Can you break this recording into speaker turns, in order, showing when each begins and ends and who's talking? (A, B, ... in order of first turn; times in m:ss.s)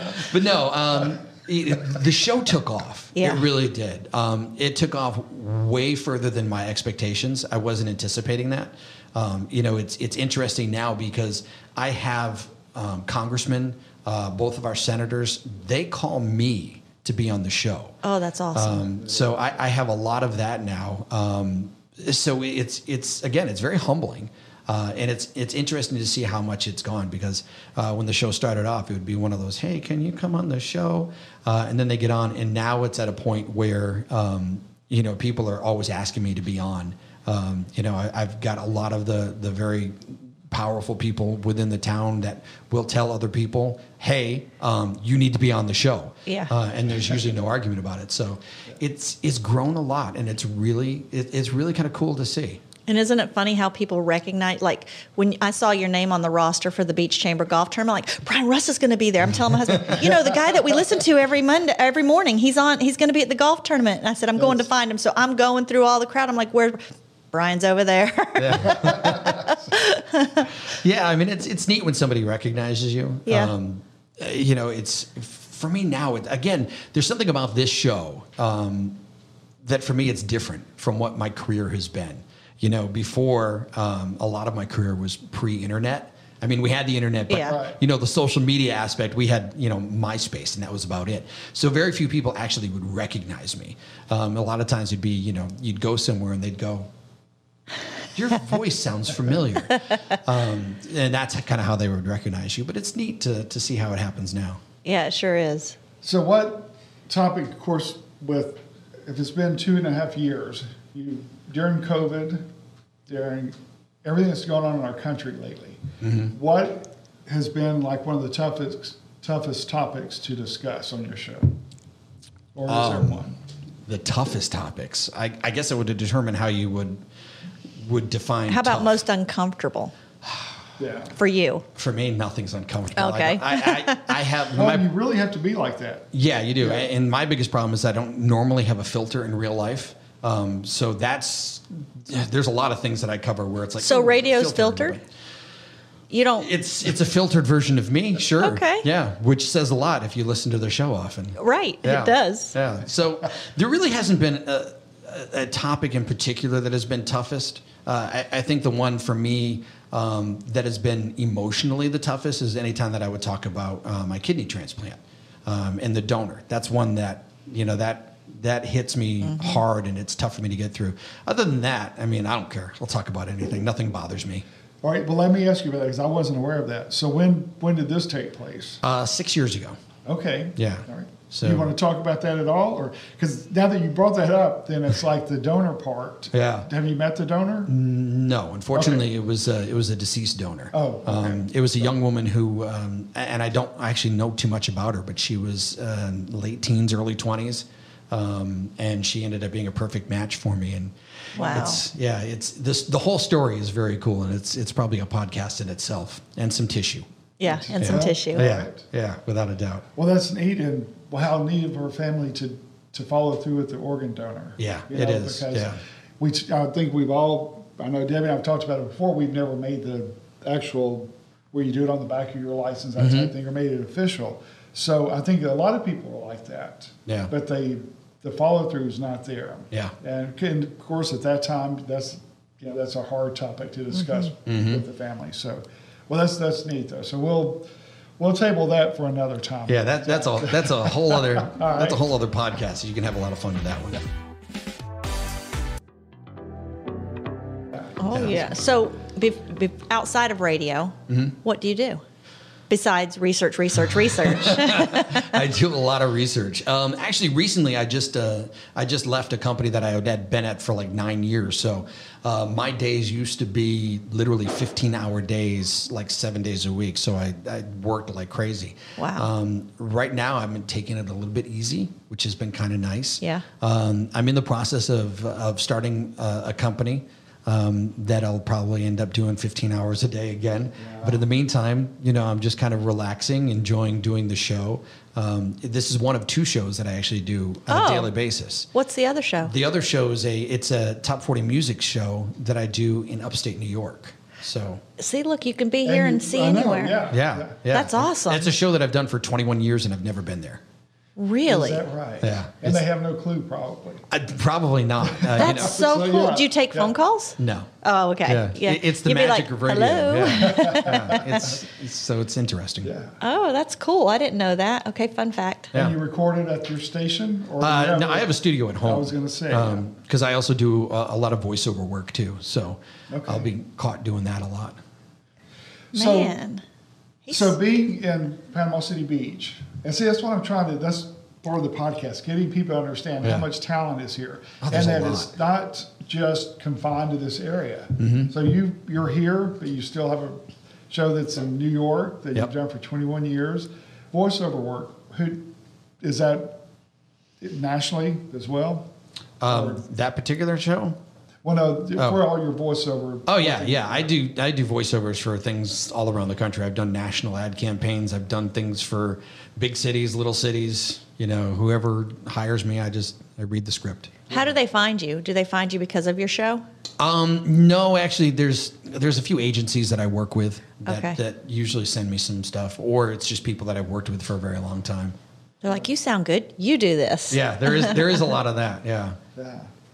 0:00.1-0:18.0 A
0:03.2-0:03.5 B
0:18.0-0:18.9 B
0:18.5-0:52.6 A
0:52.9-1:06.8 B
0:59.7-1:00.0 A
1:04.4-1:04.6 C
1:07.3-1:10.5 B
1:08.4-1:09.4 A
1:10.7-1:19.0 A
1:13.3-1:13.5 B
1:19.6-1:36.9 A
1:27.3-1:27.6 B
1:27.4-1:27.8 C
1:38.1-1:44.6 A
1:44.8-1:45.8 B
1:46.0-1:52.4 C
1:53.1-2:01.6 C
1:56.0-1:56.3 A
2:02.6-2:03.4 C
2:02.6-2:03.2 A
2:03.9-2:07.0 A
2:07.8-2:09.0 A
2:08.5-2:10.0 B
2:10.8-2:11.2 C
2:11.1-2:11.6 B
2:11.8-2:14.9 A
2:13.0-2:14.1 B
2:14.5-2:16.1 C
2:16.1-2:25.0 A
2:16.6-2:16.9 C
2:23.8-2:25.0 B
2:26.1-2:26.5 B
2:26.4-2:54.4 A
2:28.4-2:28.9 B
2:31.4-2:32.5 B
2:49.3-2:49.6 B
2:54.8-2:58.8 C
2:58.8-2:59.8 A
3:00.0-3:07.7 C
3:00.6-3:01.7 A
3:06.3-3:06.7 A
3:07.7-3:27.1 A
3:08.8-3:09.0 C
3:10.7-3:11.5 C
3:21.4-3:21.8 C
3:21.4-3:21.8 B
3:27.4-3:28.4 B
3:27.5-3:28.8 C
3:27.8-3:29.9 A
3:30.0-3:57.6 C
3:34.6-3:35.8 A
3:43.0-3:43.3 A
3:54.5-3:54.8 A
3:58.2-4:02.0 C
3:59.7-4:04.0 A
4:08.0-4:12.0 B
4:08.1-4:08.4 A
4:11.1-4:11.4 A
4:12.7-4:15.4 B
4:14.0-4:48.7 A
4:29.0-4:29.3 B
4:40.8-4:41.2 C
4:47.7-4:48.1 B
4:48.7-4:49.5 B
4:49.4-4:54.8 A
4:55.0-4:57.1 B
4:55.8-4:57.6 C
4:57.1-5:00.6 A
4:57.7-4:58.5 B
5:01.2-5:01.8 B
5:01.5-5:04.0 C
5:02.2-5:02.8 A
5:04.1-5:05.8 A
5:05.1-5:06.9 C
5:05.4-5:11.4 B
5:07.4-5:07.7 A
5:08.2-5:12.9 A
5:10.4-5:11.6 C
5:12.8-5:13.1 C
5:13.2-5:15.7 B
5:15.7-5:18.3 C
5:17.6-5:24.8 A
5:18.8-5:19.8 C
5:23.1-5:23.5 C
5:25.9-5:26.4 C
5:25.9-5:26.6 B
5:27.3-5:27.5 B
5:27.3-5:45.4 C
5:34.6-5:35.3 A
5:38.0-5:38.3 A
5:46.0-5:46.6 C
5:47.4-5:48.9 C
5:49.4-5:51.0 A
5:49.5-5:49.8 C
5:51.4-5:54.1 C
5:53.2-6:04.3 A
6:04.3-6:06.6 B
6:07.0-6:15.2 A
6:10.8-6:11.2 B
6:15.6-6:18.2 B
6:17.3-6:19.2 A
6:19.4-6:19.7 C